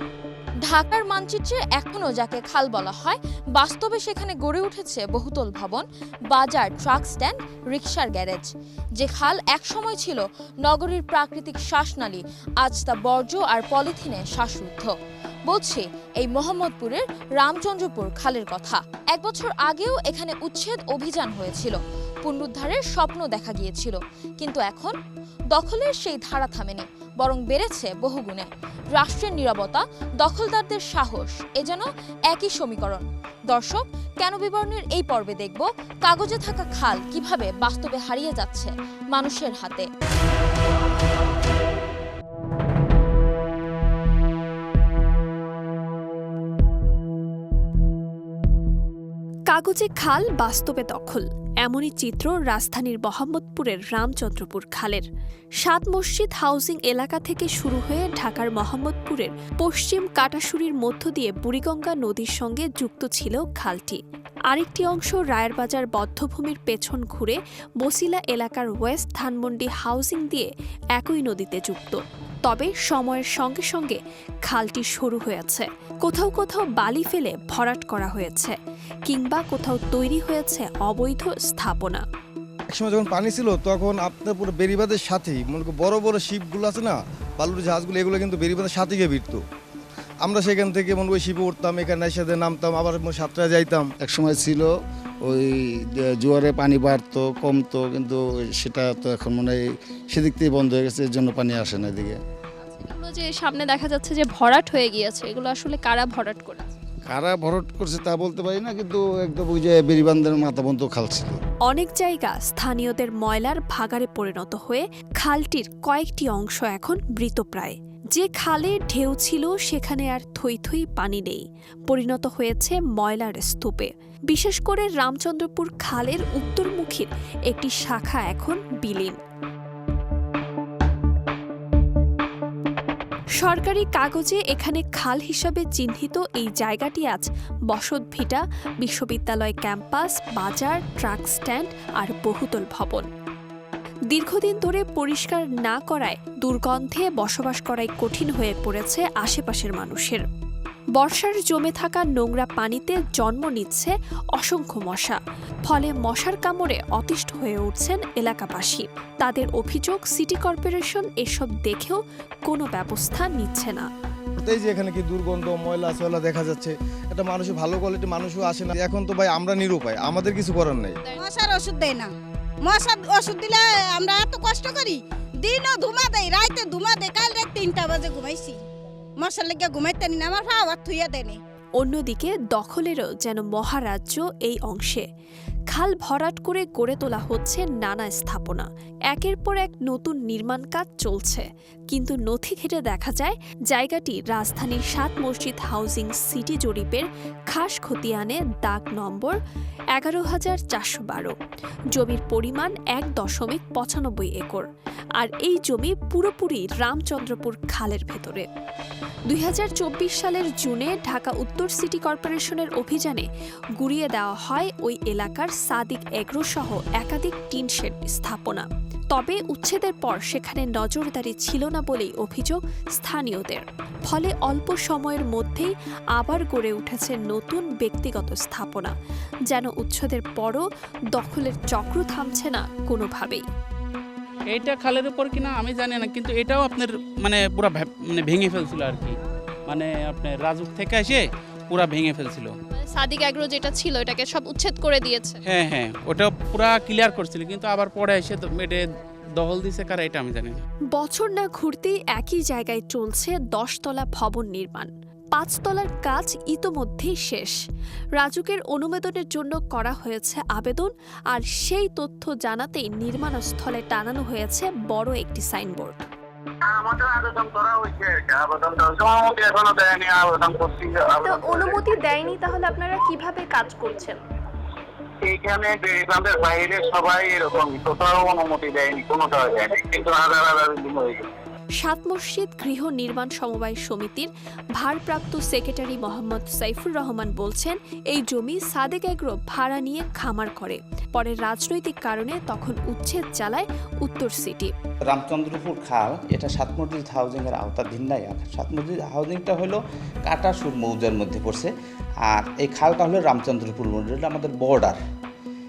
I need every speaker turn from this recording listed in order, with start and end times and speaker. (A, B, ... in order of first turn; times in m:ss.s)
0:00.6-0:14.9 A
0:15.5-0:24.9 A
0:25.5-0:39.9 A
0:49.5-0:55.0 B
0:55.6-1:04.0 B
1:04.5-1:18.6 B
1:19.1-1:22.0 B
1:22.7-1:29.4 C
1:30.2-1:33.9 C
1:34.0-1:34.7 D
1:36.2-1:39.6 D
1:40.1-1:42.2 D
1:42.8-1:46.6 E
1:47.1-1:51.4 D
1:51.7-2:09.2 B
2:13.4-2:23.1 B
2:24.1-2:30.2 B
2:31.0-2:43.9 B
2:44.4-2:51.0 C
2:51.2-2:52.1 F
2:52.7-2:58.5 F
2:59.2-3:01.4 F
3:01.8-3:05.0 B
3:05.7-3:19.4 B
3:19.9-3:21.3 B
3:21.9-3:24.6 B
3:25.2-3:28.4 B
3:29.3-3:33.3 B
3:33.8-3:48.9 B
3:49.5-3:53.4 B
3:54.5-3:59.1 G
3:55.0-3:56.8 A
3:58.3-3:58.8 A
3:59.7-4:01.1 G
4:00.5-4:01.2 A
4:01.7-4:02.4 A
4:01.8-4:02.4 G
4:02.8-4:05.4 E
4:05.5-4:08.8 G
4:05.5-4:05.8 A
4:07.7-4:08.0 A
4:09.4-4:10.4 G
4:09.5-4:10.5 A
4:10.9-4:17.6 B
4:18.2-4:26.0 B
4:26.7-4:31.8 H
4:31.2-4:34.2 B
4:35.2-4:41.3 H
4:41.8-4:54.7 B
4:55.1-5:01.7 I
5:02.3-5:05.0 I